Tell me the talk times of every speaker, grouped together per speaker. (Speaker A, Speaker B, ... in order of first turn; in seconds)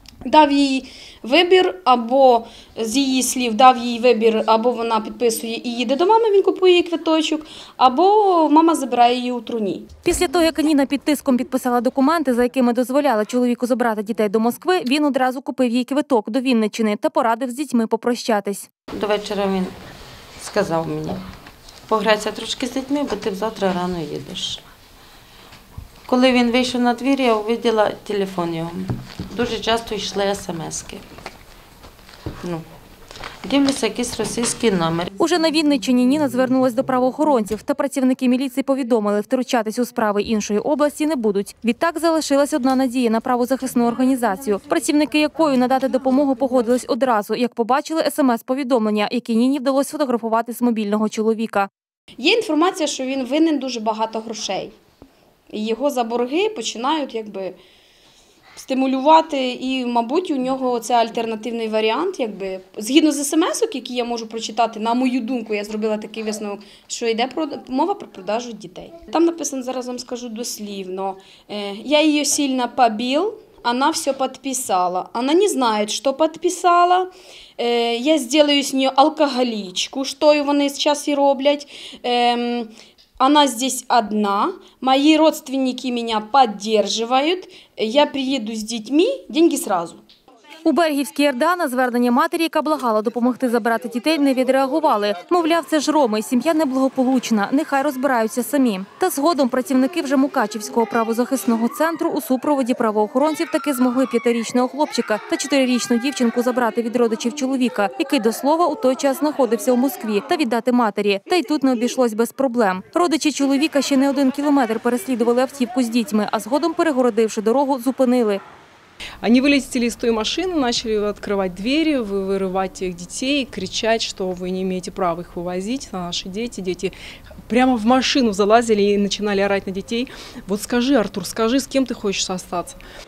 Speaker A: 0.2-9.9, 52.2-54.7, 55.5-57.6, 58.6-90.0
Speaker B: 10.1-18.7, 35.2-51.7, 90.6-118.4
Speaker C: 18.9-19.8, 20.4-21.2, 21.9-24.6, 26.1-31.1, 33.4-35.1
Speaker D: 119.2-126.9, 127.5-132.8